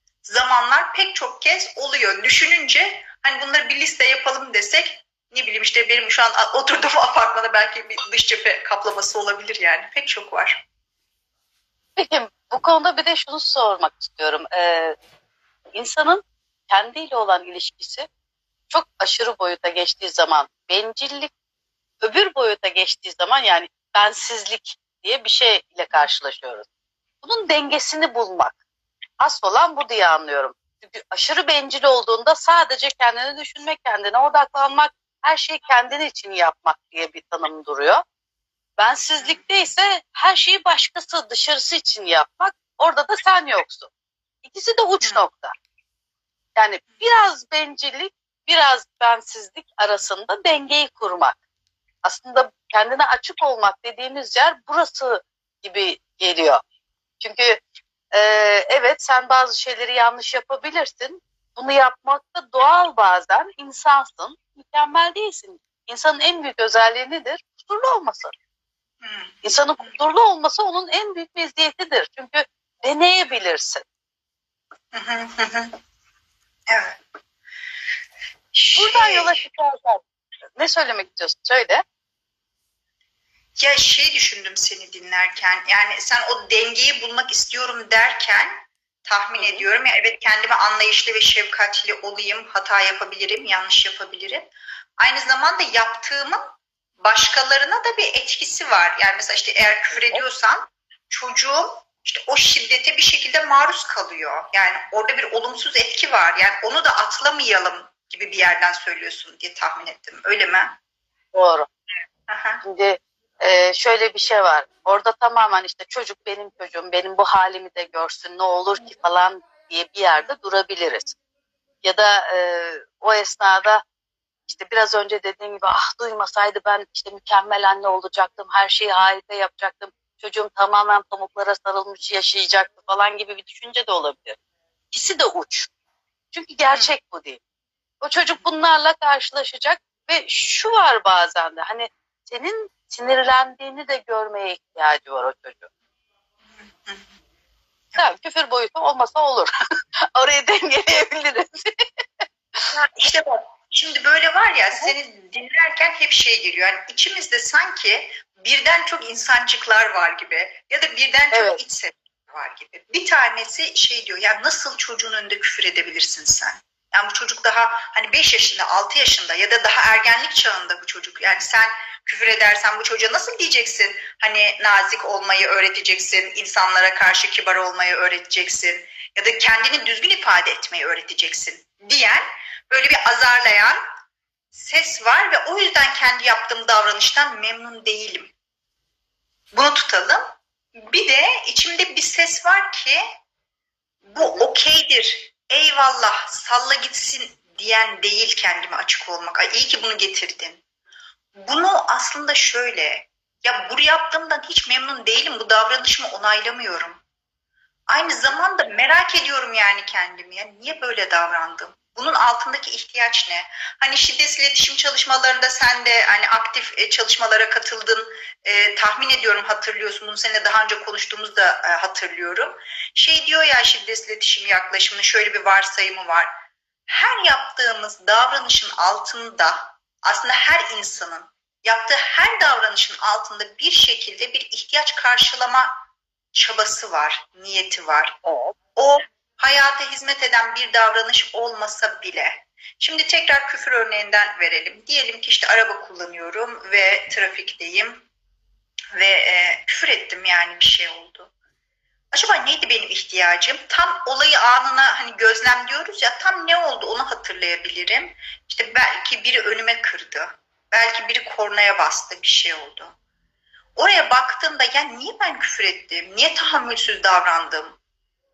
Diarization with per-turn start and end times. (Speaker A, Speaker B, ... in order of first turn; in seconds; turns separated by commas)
Speaker A: 0.2-10.6, Speaker B: 12.0-15.0, Speaker B: 15.7-18.1, Speaker B: 18.7-21.3, Speaker B: 22.0-26.7, Speaker B: 27.2-28.6, Speaker B: 29.2-38.0, Speaker B: 38.8-43.9, Speaker B: 44.4-45.5, Speaker B: 46.6-51.4, Speaker B: 52.0-56.6, Speaker B: 57.2-68.3, Speaker A: 69.0-70.0, Speaker B: 69.4-73.8, Speaker A: 74.9-75.8, Speaker A: 76.7-77.0, Speaker A: 78.5-79.4, Speaker B: 78.8-80.0, Speaker B: 80.6-81.8, Speaker A: 83.6-110.8, Speaker B: 89.4-89.7, Speaker B: 111.3-111.7, Speaker A: 112.3-112.6, Speaker B: 112.6-121.2, Speaker B: 121.8-123.8, Speaker B: 124.5-134.4, Speaker B: 134.9-135.7, Speaker B: 136.3-137.4, Speaker B: 138.0-145.7, Speaker A: 146.5-147.1, Speaker B: 148.0-149.5, Speaker B: 150.1-152.6, Speaker A: 152.7-183.8, Speaker B: 161.3-161.6, Speaker A: 184.5-188.3, Speaker A: 189.5-193.0, Speaker A: 194.0-200.6, Speaker A: 201.4-207.0, Speaker A: 207.9-226.4, Speaker A: 226.9-235.8, Speaker A: 236.3-238.2, Speaker B: 238.2-238.6, Speaker A: 238.8-248.1, Speaker A: 248.9-251.3, Speaker A: 252.1-262.9, Speaker A: 263.8-267.8